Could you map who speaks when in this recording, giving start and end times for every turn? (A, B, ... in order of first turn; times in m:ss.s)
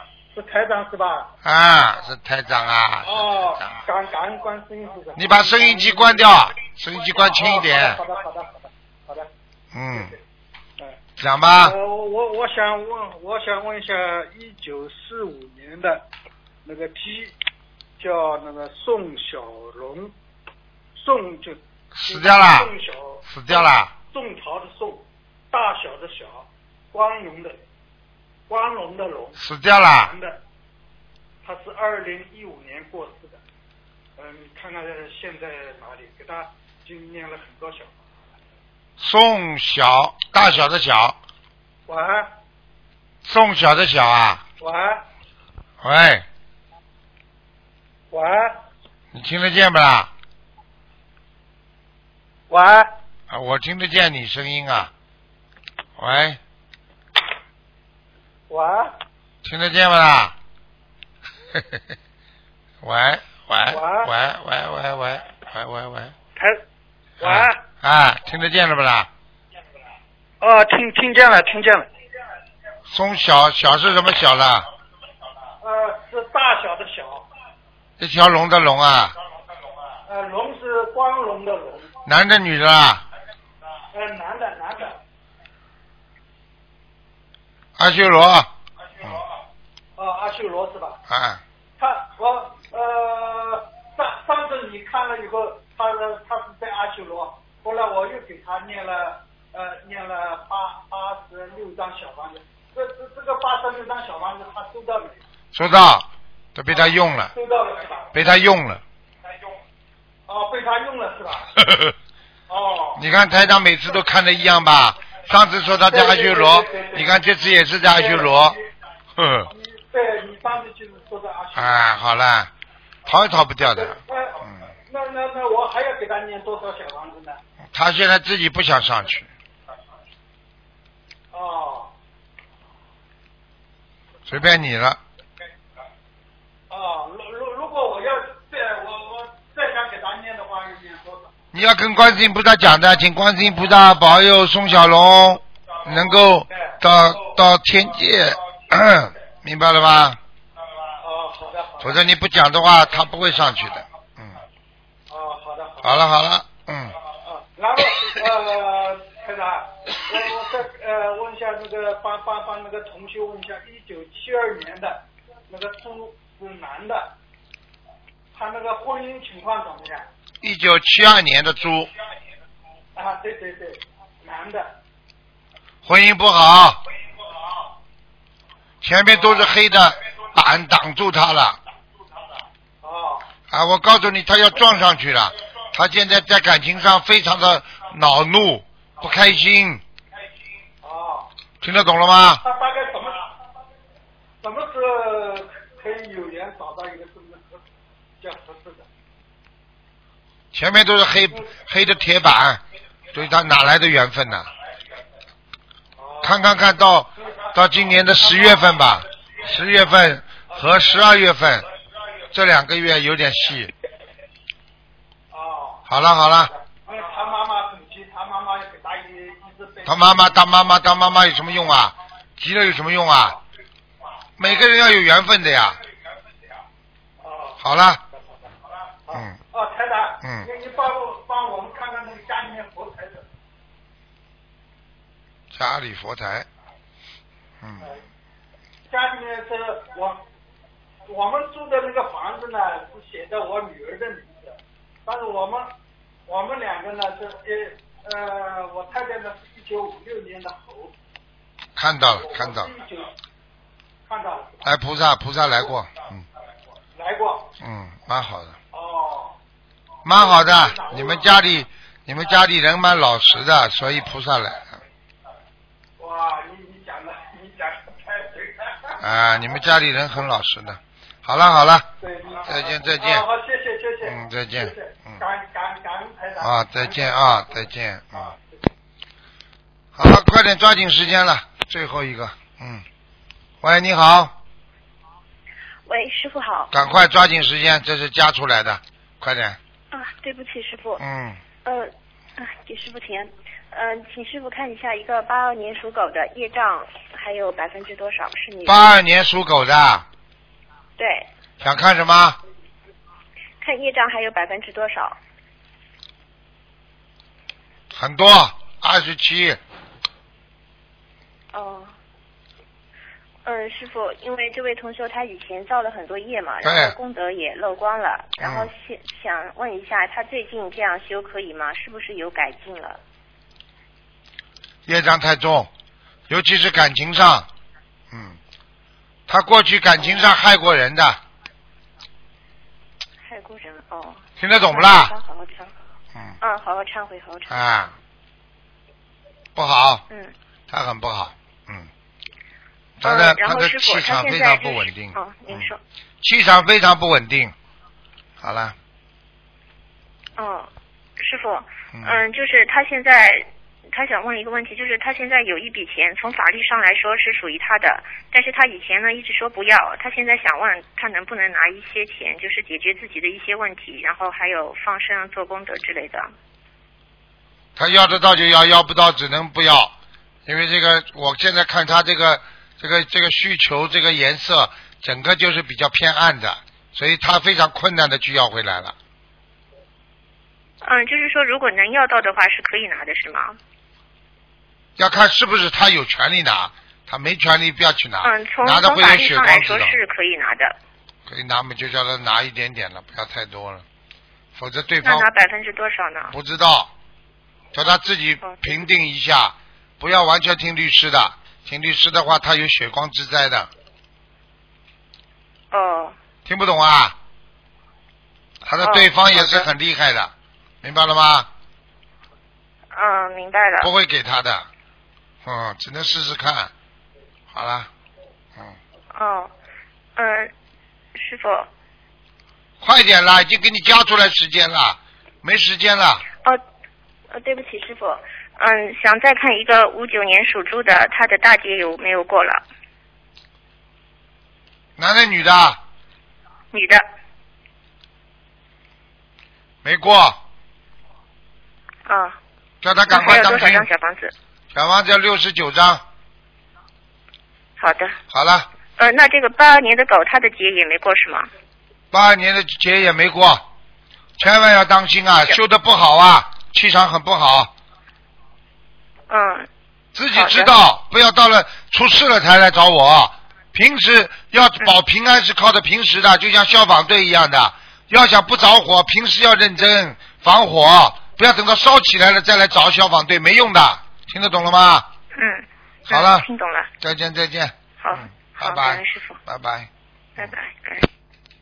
0:00.3-0:01.3 A
0:01.4-0:03.8 B
0:03.0-0:06.4 A
0:05.2-0:08.0 B
0:07.2-0:09.3 A
0:09.7-0:10.2 B
0:11.2-0:11.8 B
0:11.6-0:16.1 A
0:16.6-0:17.4 A
0:18.0-0:20.2 A
0:21.0-0:27.6 A
0:21.9-0:23.9 B
0:28.5-0:29.4 A
0:29.4-0:30.2 B
0:30.0-0:30.4 A
0:31.4-0:33.4 A
0:34.2-0:38.0 A
0:39.0-0:41.2 B
0:41.9-0:42.3 A
0:43.2-0:44.4 B
0:44.6-0:45.1 A
0:45.8-0:46.2 B
0:48.1-0:48.6 A
0:49.1-0:50.1 B
0:52.5-0:52.9 A
0:53.3-0:54.9 B
0:56.0-0:56.4 B
0:58.5-0:59.0 A
0:59.4-1:00.4 B
1:01.5-1:01.8 B
1:02.8-1:06.2 B
1:03.7-1:04.1 A
1:06.4-1:06.6 A
1:07.2-1:07.6 A
1:07.2-1:09.1 B
1:10.4-1:11.9 A
1:12.9-1:14.7 B
1:15.6-1:17.3 A
1:18.0-1:19.2 B
1:20.1-1:21.9 A
1:22.1-1:23.0 B
1:23.9-1:25.0 A
1:27.8-1:28.5 B
1:30.0-1:31.0 A
1:31.1-1:31.4 B
1:31.8-1:45.2 A
1:45.5-1:47.3 B
1:46.7-1:48.2 A
1:48.1-1:48.8 B
1:50.3-1:51.5 A
1:51.6-1:51.9 B
1:52.5-1:53.0 A
1:53.0-1:58.6 B
1:55.8-1:57.3 A
1:57.9-1:58.6 A
1:59.2-1:59.5 B
1:59.5-2:01.8 A
2:01.6-2:02.5 B
2:03.1-2:04.7 B
2:03.7-2:07.4 A
2:07.7-2:09.3 B
2:11.3-2:11.9 A
2:14.3-2:15.0 B
2:16.7-2:21.3 A
2:21.5-2:30.2 B
2:26.5-2:26.8 A
2:31.0-2:32.1 A
2:31.8-2:34.4 B
2:35.1-2:36.0 A
2:35.8-2:37.0 B
2:37.2-2:47.2 A
2:48.3-2:50.1 A
2:50.4-2:51.9 B
2:53.0-2:54.8 A
2:55.8-2:56.8 B
2:58.8-3:01.6 B
3:02.8-3:03.3 A
3:03.5-3:09.8 B
3:10.8-3:11.3 A
3:11.6-3:12.4 B
3:12.4-3:13.3 A
3:14.4-3:17.6 A
3:18.2-3:18.9 A
3:20.5-3:22.6 B
3:23.1-3:24.5 B
3:26.0-3:26.5 A
3:26.2-3:31.7 B
3:28.0-3:28.6 A
3:30.5-3:30.8 A
3:32.3-3:33.7 B
3:35.3-3:35.8 A
3:35.9-3:36.5 B
3:36.7-3:40.4 A
3:39.8-3:43.4 B
3:44.4-3:45.8 B
3:47.2-3:47.6 A
3:47.6-3:48.0 B
3:49.1-3:53.3 A
3:49.1-3:49.4 B
3:50.2-3:50.5 B
3:55.5-3:56.5 B
3:57.6-3:58.0 B
3:58.9-4:00.2 A
4:01.1-4:05.8 A
4:06.3-4:10.9 A
4:11.8-4:12.7 B
4:12.1-4:13.1 A
4:14.1-4:14.7 A
4:14.6-4:16.3 B
4:17.0-4:17.5 A
4:17.6-4:18.6 B
4:18.7-4:19.4 A
4:20.0-4:24.8 B
4:20.1-4:21.6 A
4:26.0-4:29.0 A
4:29.0-4:31.9 B
4:32.0-4:38.4 A
4:32.4-4:33.3 B
4:34.0-4:35.2 B
4:36.4-4:38.3 B
4:40.0-4:42.8 B
4:43.6-4:44.3 B
4:45.9-4:46.8 C
4:46.7-4:49.6 B
4:49.9-4:51.0 C
4:51.0-4:51.4 B
4:51.6-4:58.8 C
4:58.7-5:00.1 B
5:01.0-5:01.3 C
5:01.6-5:02.4 B
5:03.6-5:05.2 C
5:07.9-5:09.6 B
5:11.5-5:12.0 C
5:13.4-5:23.0 C
5:16.6-5:17.0 B
5:18.4-5:18.7 B
5:24.9-5:25.7 B
5:26.3-5:27.5 B
5:28.1-5:28.4 B
5:29.3-5:31.2 B
5:30.0-5:30.3 C
5:33.2-5:35.7 C
5:34.4-5:35.1 B
5:36.4-5:37.6 C
5:37.5-5:38.0 B
5:39.6-5:40.0 B
5:40.7-5:41.9 B
5:43.0-5:45.7 B
5:43.0-5:45.8 C
5:46.2-5:47.6 B
5:48.4-5:48.8 B
5:50.4-6:06.3 C
5:51.9-5:52.2 B
6:07.8-6:09.9 B
6:10.5-6:19.0 B
6:20.8-6:23.6 C
6:25.0-6:30.0 B
6:28.2-6:30.8 C
6:31.3-6:33.8 B
6:34.6-6:35.3 B
6:35.0-6:36.3 C
6:36.3-6:36.9 B
6:37.7-6:43.7 B
6:38.4-6:38.7 C
6:45.7-6:46.2 C
6:46.5-6:47.2 B
6:48.6-6:51.5 B
6:48.8-6:49.7 C
6:52.9-6:53.9 C
6:53.8-6:54.7 B
6:55.4-6:56.7 B
6:57.5-6:57.9 B
6:59.1-6:59.5 C
7:00.2-7:00.5 C
7:01.2-7:01.7 C
7:02.8-7:06.2 B
7:07.3-7:12.6 C
7:15.0-7:15.8 B
7:16.7-7:17.0 C
7:19.8-7:20.4 B
7:22.1-7:22.4 C
7:22.8-7:23.9 B
7:23.1-7:24.3 C
7:24.7-7:26.0 B
7:27.8-7:28.2 C
7:28.3-7:28.7 B
7:29.0-7:31.5 C
7:32.1-7:33.6 B
7:34.4-7:37.7 B
7:39.3-7:39.7 C
7:40.2-7:55.1 B
7:40.3-7:40.7 C
7:55.4-7:56.9 C
7:56.1-7:56.5 B
7:57.0-8:00.5 B
7:58.0-7:59.4 C
8:00.4-8:01.1 C